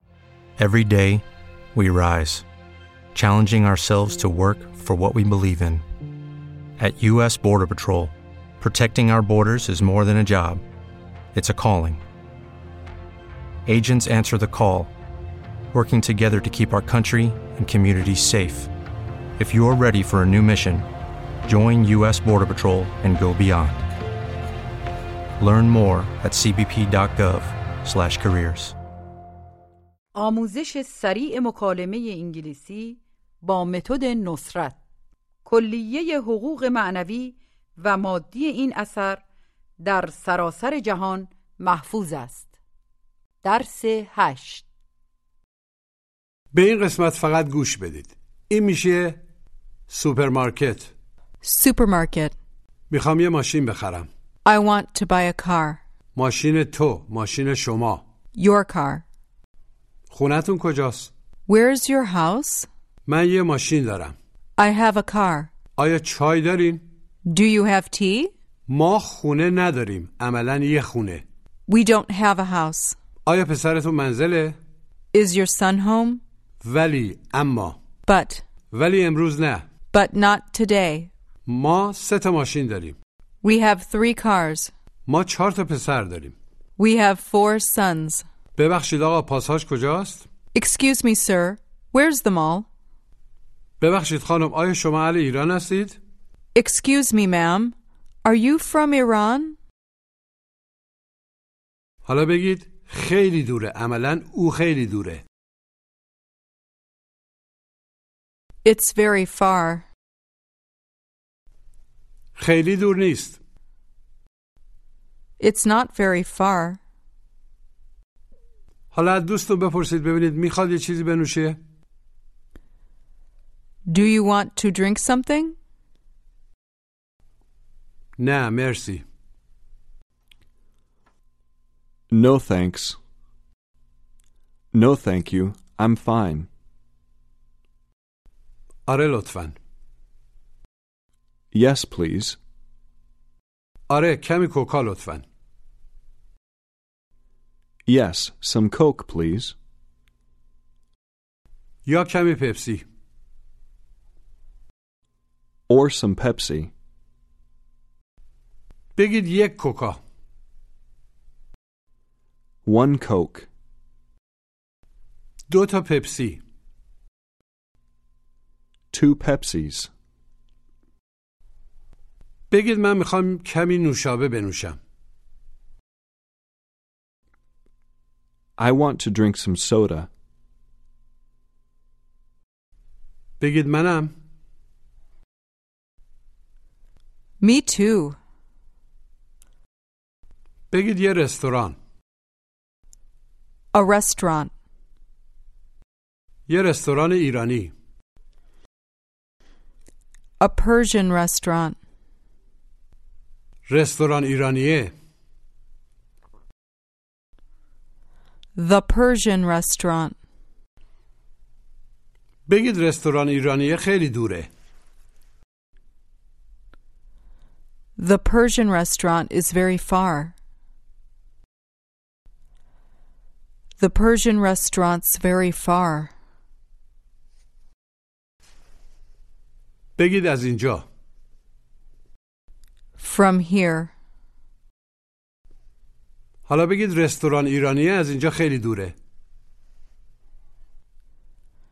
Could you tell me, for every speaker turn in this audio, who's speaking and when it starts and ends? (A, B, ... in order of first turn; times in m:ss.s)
0:00.6-0:01.2 A
0:01.8-0:02.4 A
0:03.1-0:05.8 A
0:06.8-0:10.6 A
0:11.3-0:12.0 A
0:13.7-0:14.9 A
0:15.7-0:18.7 A
0:19.4-0:20.9 A
0:21.4-0:23.8 A
0:25.4-0:28.8 A
0:30.2-0:34.8 B
0:35.4-0:39.2 B
0:39.8-0:42.5 B
0:43.4-0:44.7 B
0:46.5-0:49.2 C
0:49.9-0:50.9 C
0:51.4-0:52.4 D
0:52.9-0:54.1 C
0:54.4-0:55.8 D
0:56.2-0:58.0 C
0:58.4-0:59.0 D
1:00.1-1:01.1 C
1:01.5-1:02.7 D
1:03.1-1:04.2 C
1:04.6-1:05.5 D
1:05.8-1:06.8 C
1:07.3-1:08.3 D
1:08.7-1:11.2 C
1:11.7-1:13.0 D
1:13.2-1:14.6 C
1:15.1-1:16.2 D
1:16.6-1:17.8 C
1:18.1-1:18.4 D
1:18.7-1:19.6 C
1:19.9-1:21.1 D
1:21.5-1:23.0 C
1:23.4-1:24.7 D
1:25.1-1:26.4 C
1:26.8-1:28.2 D
1:28.6-1:30.3 C
1:30.5-1:32.7 D
1:33.8-1:36.0 C
1:36.6-1:39.6 D
1:42.1-1:45.2 C
1:48.6-1:49.9 D
1:52.4-1:53.4 C
1:55.4-1:56.8 D
1:58.9-2:01.6 C
2:03.9-2:05.6 D
2:08.2-2:09.0 C
2:12.1-2:13.0 E
2:14.7-2:16.5 E
2:18.9-2:19.6 C
2:21.5-2:22.4 E
2:23.9-2:25.2 C
2:27.9-2:29.6 E
2:31.8-2:32.8 C
2:35.7-2:36.7 E
2:39.0-2:40.0 C
2:42.6-2:43.5 E
2:45.5-2:46.4 C
2:48.9-2:49.9 E
2:52.5-2:54.8 C
2:58.6-3:00.1 E
3:03.4-3:04.1 C
3:07.4-3:08.2 D
3:10.7-3:11.8 C
3:13.7-3:14.5 D
3:16.5-3:17.7 C
3:20.4-3:21.8 D
3:23.7-3:24.9 C
3:28.6-3:30.2 D
3:32.5-3:34.5 C
3:38.0-3:40.3 D
3:43.8-3:46.1 D
3:50.0-3:50.8 C
3:53.0-3:53.9 D
3:56.5-3:58.9 C